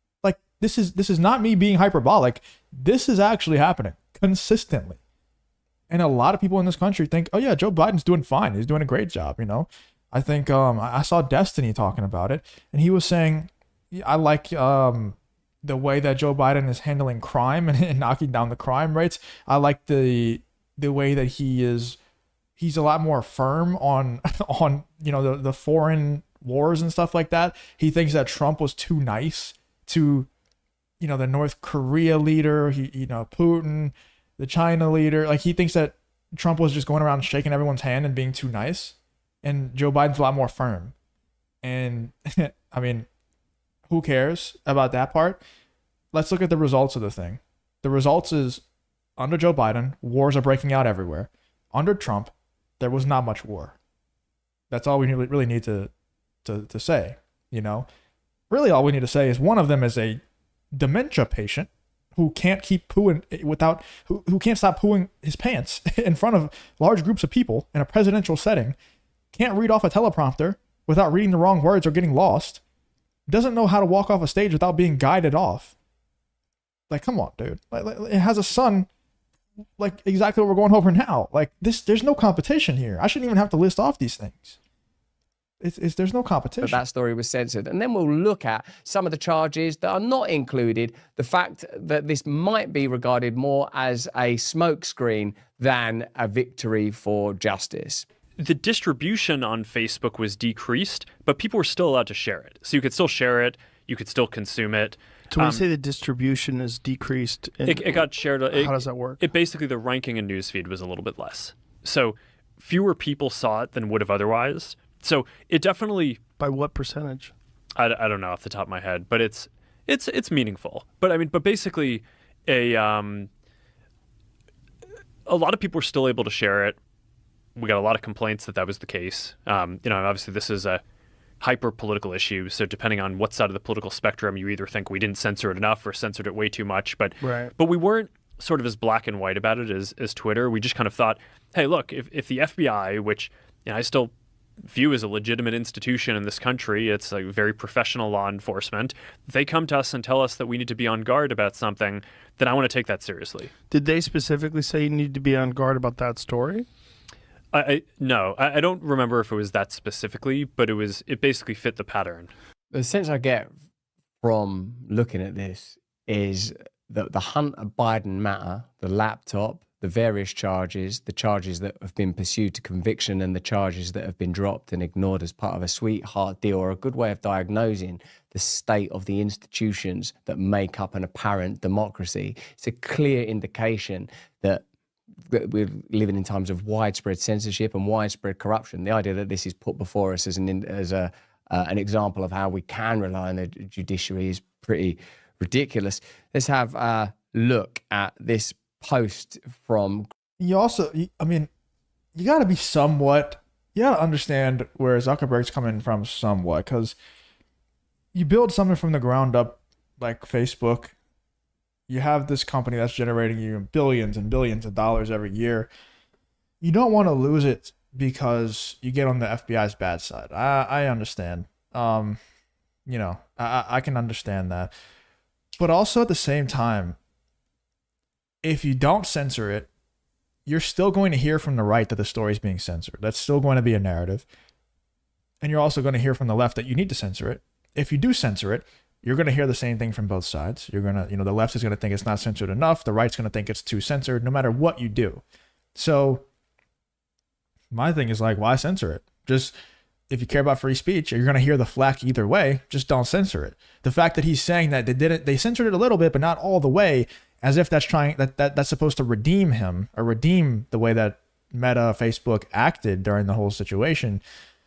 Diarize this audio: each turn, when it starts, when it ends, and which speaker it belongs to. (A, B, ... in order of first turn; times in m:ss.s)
0:00.2-0:05.0 A
0:05.9-0:22.0 A
0:22.6-0:30.3 A
0:31.0-0:40.9 A
0:41.6-0:43.1 A
0:43.9-0:45.4 A
0:46.1-0:48.6 A
0:49.2-0:53.8 A
0:54.7-0:55.9 A
0:56.4-0:57.8 A
0:58.5-1:00.2 A
1:00.7-1:08.8 A
1:09.3-1:12.6 A
1:13.3-1:15.7 A
1:16.9-1:18.9 A
1:19.8-1:24.6 A
1:25.6-1:26.8 A
1:26.6-1:38.0 B
1:38.4-1:45.7 C
1:45.3-1:49.2 D
1:47.6-1:56.2 C
1:56.4-1:57.3 D
1:57.8-2:03.3 C
2:05.2-2:06.8 C
2:07.6-2:10.8 C
2:11.4-2:33.5 C
2:17.2-2:17.5 D
2:33.7-2:36.7 D
2:37.5-2:42.3 C
2:42.7-2:43.5 B
2:44.2-3:04.6 B
3:05.3-3:20.1 B
3:20.4-3:21.5 A
3:22.1-3:27.0 A
3:28.1-3:30.9 A
3:31.9-3:35.7 A
3:36.6-3:42.2 A
3:42.9-3:44.7 A
3:45.6-3:47.0 A
3:48.4-3:49.7 A
3:50.4-3:54.2 A
3:55.4-4:05.2 A
4:05.7-4:06.2 A
4:07.7-4:09.5 A
4:10.1-4:24.2 A